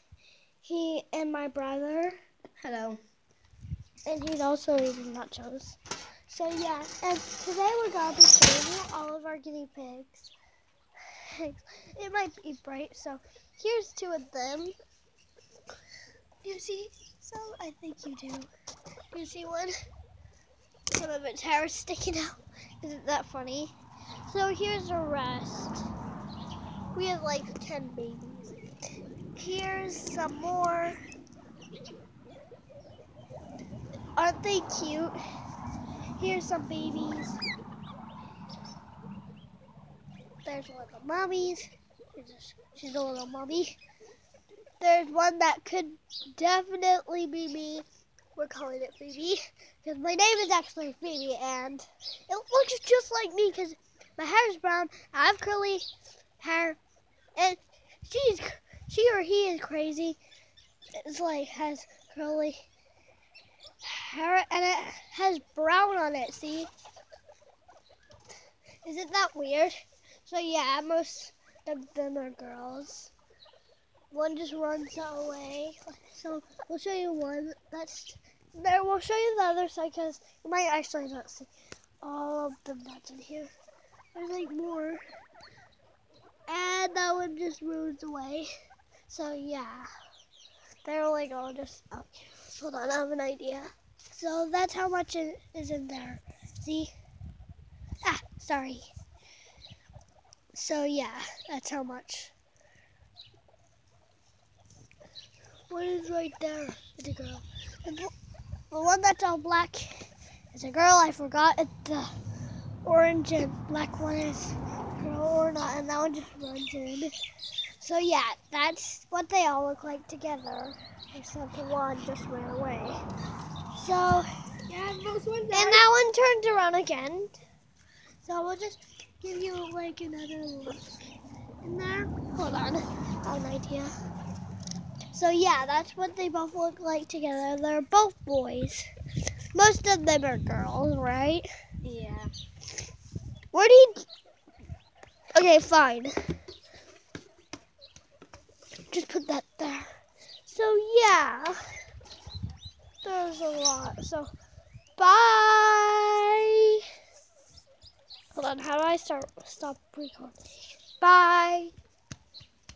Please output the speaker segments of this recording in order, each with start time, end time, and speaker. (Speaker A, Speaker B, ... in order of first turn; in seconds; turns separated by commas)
Speaker A: 0.6-2.2, Speaker B: 2.6-3.0, Speaker A: 4.0-10.3, Speaker A: 11.3-14.7, Speaker A: 16.4-18.5, Speaker A: 19.1-19.7, Speaker A: 20.9-25.9, Speaker A: 26.9-28.6, Speaker A: 29.4-31.0, Speaker A: 34.2-35.1, Speaker A: 36.2-37.4, Speaker A: 40.4-43.8, Speaker A: 44.8-55.9, Speaker A: 56.4-56.8, Speaker A: 57.4-60.2, Speaker A: 61.0-62.7, Speaker A: 63.8-66.7, Speaker A: 68.8-73.1, Speaker A: 74.1-81.5, Speaker A: 82.0-83.5, Speaker A: 84.1-85.0, Speaker A: 86.5-88.5, Speaker A: 89.1-89.9, Speaker A: 90.8-96.9, Speaker A: 98.0-98.9, Speaker A: 100.5-102.3, Speaker A: 105.7-108.1, Speaker A: 108.7-112.1, Speaker A: 112.8-117.1, Speaker A: 117.8-123.0, Speaker A: 123.7-124.3, Speaker B: 124.7-125.8, Speaker A: 125.5-127.3, Speaker A: 128.2-131.0, Speaker A: 131.6-133.9, Speaker A: 135.1-138.8, Speaker A: 139.5-141.5, Speaker B: 141.8-142.3, Speaker A: 143.5-144.1, Speaker A: 145.3-146.2, Speaker A: 148.9-149.9, Speaker A: 150.4-151.6, Speaker A: 153.0-154.3, Speaker A: 155.0-156.8, Speaker A: 158.3-160.4, Speaker A: 160.9-161.7